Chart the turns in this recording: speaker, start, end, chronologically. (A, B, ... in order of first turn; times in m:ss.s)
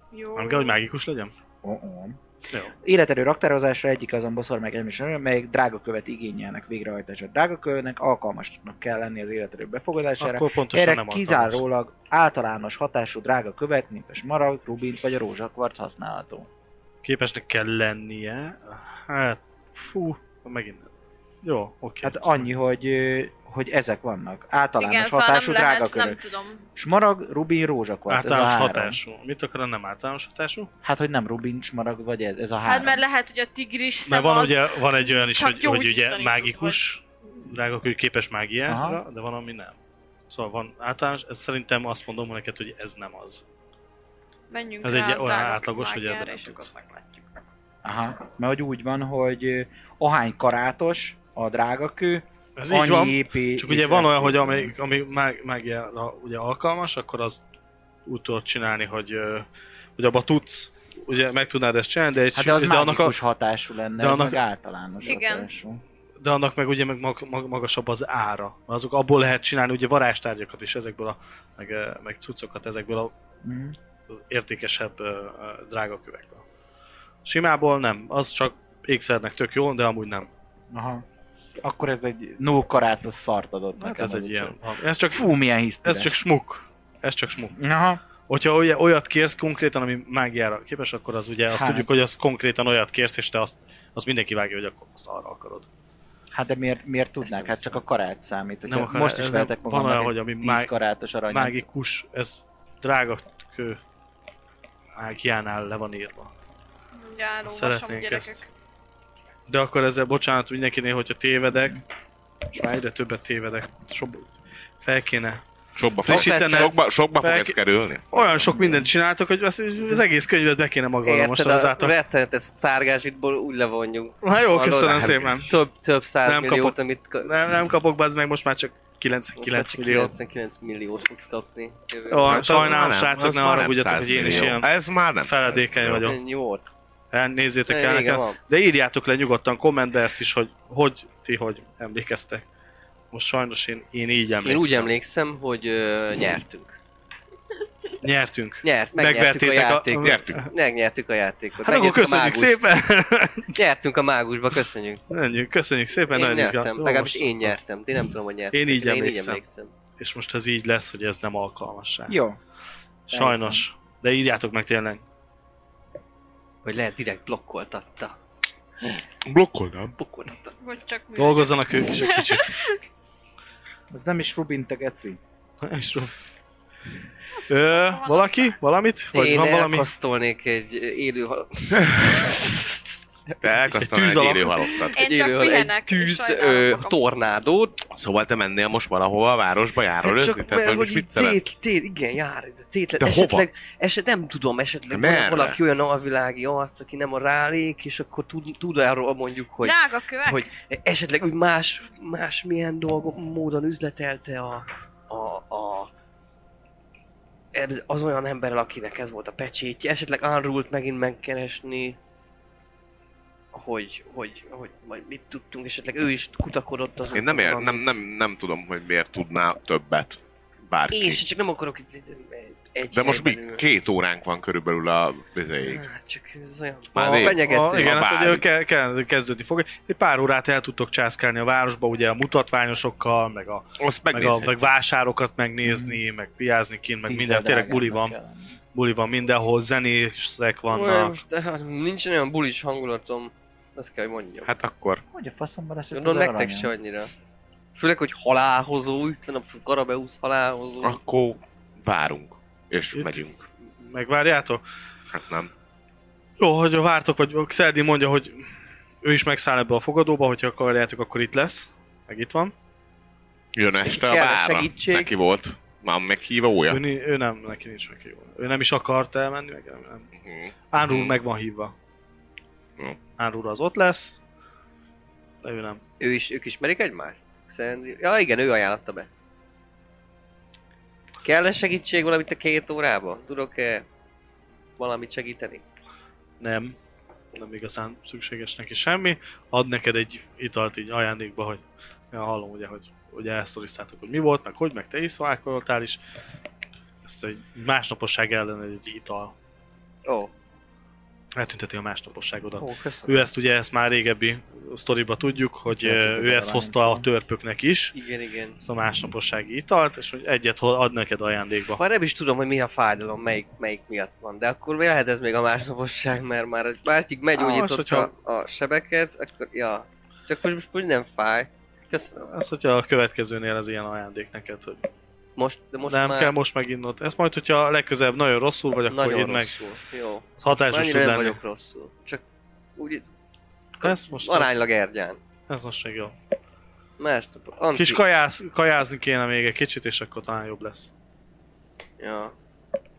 0:00.1-0:00.8 A
0:00.4-0:01.3 B
0:01.6-0:02.2 C
0:02.8-0:16.5 C
0:10.2-0:11.6 B
0:17.0-0:20.9 B
0:21.4-0:22.5 B
0:22.0-0:26.2 C
0:24.8-0:26.6 A
0:26.8-0:29.0 C
0:28.1-0:30.7 B
0:30.8-0:33.0 C
0:32.6-0:36.8 A
0:34.0-0:39.8 B
0:38.7-0:39.0 C
0:40.3-0:43.4 B
0:44.5-0:47.3 A
0:44.8-0:46.7 B
0:47.8-0:54.7 C
0:52.6-0:57.4 B
0:58.0-1:03.2 B
1:02.3-1:05.8 C
1:04.0-1:04.4 B
1:05.0-1:05.5 A
1:06.2-1:13.1 B
1:13.4-1:13.8 C
1:14.1-1:16.4 B
1:17.2-1:20.3 B
1:20.7-1:21.0 C
1:21.6-1:26.2 C
1:23.8-1:27.6 B
1:27.6-1:28.0 C
1:28.3-1:35.7 B
1:31.5-1:32.0 C
1:36.3-1:41.6 C
1:38.7-1:40.7 B
1:41.3-1:43.8 B
1:45.0-1:46.3 B
1:47.0-1:48.5 A
1:47.4-1:48.4 B
1:49.5-1:51.8 B
1:52.5-1:54.3 B
1:54.8-1:55.4 B
1:55.8-1:58.5 D
1:56.0-1:57.6 B
1:56.0-1:56.8 E
1:58.1-2:02.0 B
1:58.5-1:58.9 C
2:01.0-2:07.3 E
2:04.2-2:05.5 B
2:05.0-2:05.4 D
2:06.2-2:10.1 B
2:09.4-2:12.7 E
2:12.1-2:14.7 B
2:12.3-2:16.1 D
2:15.2-2:16.2 B
2:16.0-2:16.7 E
2:17.1-2:22.4 B
2:17.7-2:18.4 E
2:23.1-2:24.9 B
2:24.4-2:26.7 E
2:28.0-2:30.5 B
2:28.6-2:32.7 E
2:30.0-2:30.4 D
2:31.6-2:33.6 B
2:33.5-2:35.0 E
2:35.1-2:37.6 B
2:36.1-2:39.7 E
2:38.5-2:39.4 B
2:40.0-2:42.2 B
2:42.1-2:42.4 C
2:43.1-2:43.6 C
2:43.1-2:45.0 B
2:46.6-2:48.2 E
2:49.2-2:50.0 D
2:50.0-2:50.5 E
2:50.6-2:52.8 A
2:51.2-2:52.6 B
2:53.9-2:55.2 C
2:55.6-2:56.2 B
2:57.5-2:59.9 B
2:57.6-2:58.6 A
2:59.1-3:02.7 E
3:03.4-3:05.0 D
3:03.7-3:04.5 B
3:04.6-3:07.8 E
3:04.9-3:07.0 A
3:07.9-3:11.4 D
3:10.0-3:25.9 E
3:13.0-3:13.5 D
3:14.9-3:15.6 D
3:19.6-3:20.5 A
3:27.5-3:32.0 E
3:33.5-3:37.9 E
3:37.1-3:41.2 D
3:40.9-3:43.6 E
3:42.9-3:45.8 D
3:45.6-3:48.4 E
3:46.9-3:48.4 D
3:47.0-3:58.1 B
3:53.8-3:54.6 D
3:55.6-3:56.0 C
3:57.1-3:58.6 C
3:58.7-4:01.2 B
4:00.7-4:04.5 E
4:04.4-4:05.0 D
4:05.1-4:06.7 C
4:05.9-4:07.1 E
4:07.7-4:11.0 E
4:10.8-4:13.4 D
4:12.9-4:13.2 B
4:13.8-4:14.6 B
4:15.1-4:15.5 D
4:16.4-4:18.5 B
4:19.0-4:22.5 B
4:23.6-4:26.8 D
4:23.9-4:25.1 E
4:26.7-4:30.1 B
4:30.2-4:31.1 D
4:30.7-4:31.7 B
4:33.2-4:34.2 B
4:35.4-4:35.8 B
4:36.0-4:39.1 E
4:41.2-4:43.9 E
4:44.8-4:45.6 E
4:46.4-4:46.8 B
4:47.3-4:56.0 B
4:57.0-4:59.3 B
5:00.0-5:00.3 E
5:01.4-5:08.0 B
5:02.6-5:03.3 E
5:05.8-5:07.0 C
5:07.9-5:08.6 E
5:08.6-5:11.8 B
5:11.8-5:22.3 E
5:17.4-5:18.1 B
5:22.3-5:24.9 B
5:25.4-5:26.3 E
5:25.9-5:29.6 B
5:28.9-5:32.2 E
5:30.4-5:31.4 B
5:32.8-5:33.0 E
5:33.8-5:35.2 E
5:33.8-5:34.6 B
5:35.5-5:36.1 B
5:37.0-5:38.0 E
5:37.7-5:40.9 B
5:42.0-5:42.3 E